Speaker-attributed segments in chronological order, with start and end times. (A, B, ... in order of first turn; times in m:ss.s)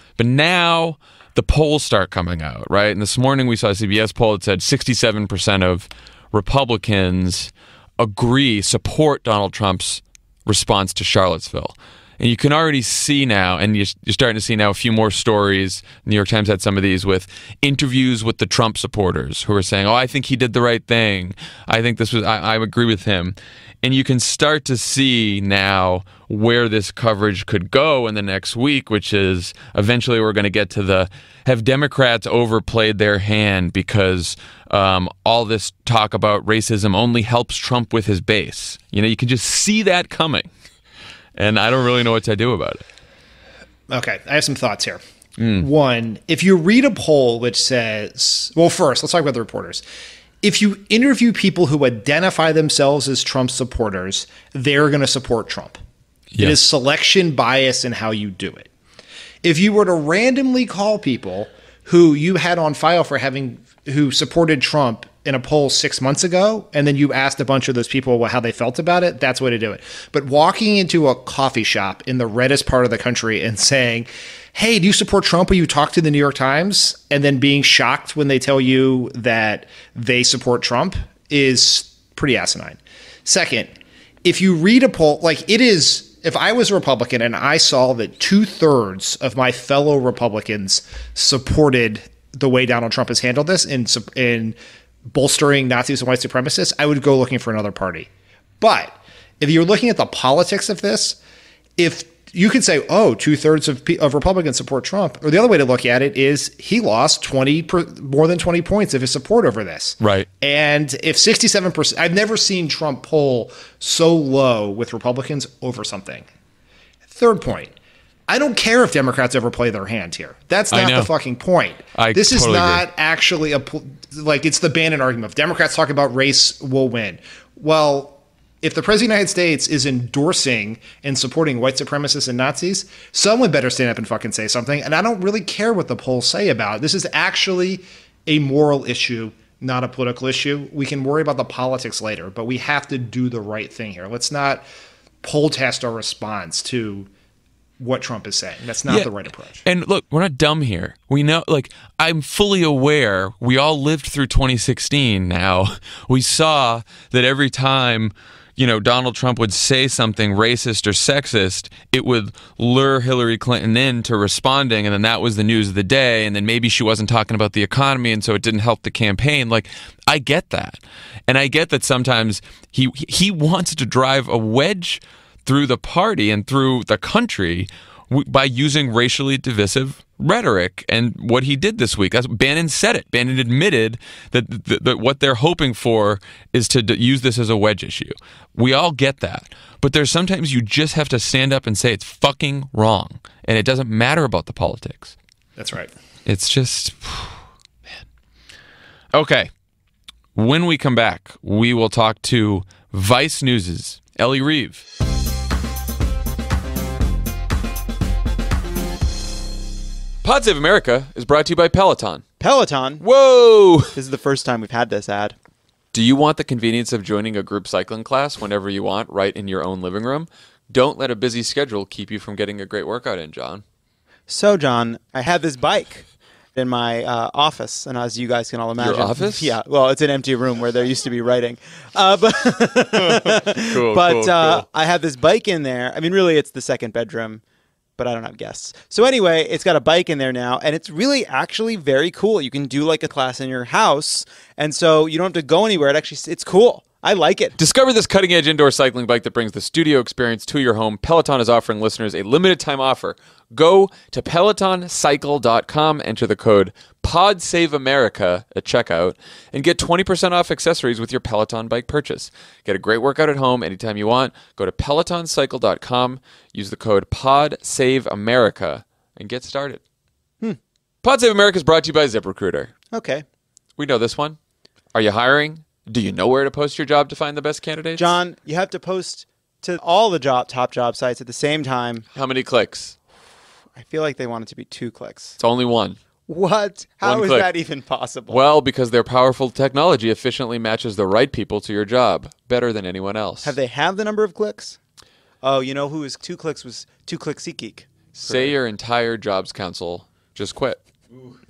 0:00.2-0:40.5 A
0:41.4-0:42.8 A
0:43.9-0:45.0 B
0:45.4-0:45.7 A
0:45.6-0:49.8 B
0:50.4-0:55.8 B
0:56.3-0:56.6 A
0:56.4-0:58.7 B
0:59.4-1:23.7 B
1:24.2-1:38.1 B
1:38.6-1:41.2 B
1:41.8-1:56.3 B
1:50.0-1:50.3 A
1:57.1-1:57.7 B
1:58.3-2:24.6 B
2:00.7-2:01.1 A
2:02.0-2:02.9 A
2:25.2-2:27.1 B
2:27.8-2:29.6 B
2:29.6-3:15.2 A
3:15.6-3:15.9 B
3:16.3-3:17.4 A
3:19.1-3:19.5 A
3:20.4-3:24.8 A
3:30.2-3:32.3 A
3:32.4-3:33.0 C
3:33.0-3:34.0 A
3:34.0-3:35.4 C
3:35.9-3:43.6 A
3:44.3-3:57.4 C
3:48.8-3:49.5 A
3:52.9-3:54.7 A
3:58.0-4:07.6 C
4:07.6-4:29.8 A
4:31.0-4:32.7 A
4:32.9-4:33.2 C
4:33.8-4:34.4 A
4:34.9-4:38.2 A
4:38.0-4:42.1 C
4:42.1-4:43.0 A
4:43.7-4:45.4 C
4:45.4-4:46.0 A
4:46.3-4:48.4 C
4:47.0-4:47.5 A
4:48.3-4:53.6 A
4:53.4-4:54.8 C
4:55.4-4:58.6 C
4:58.1-5:00.8 A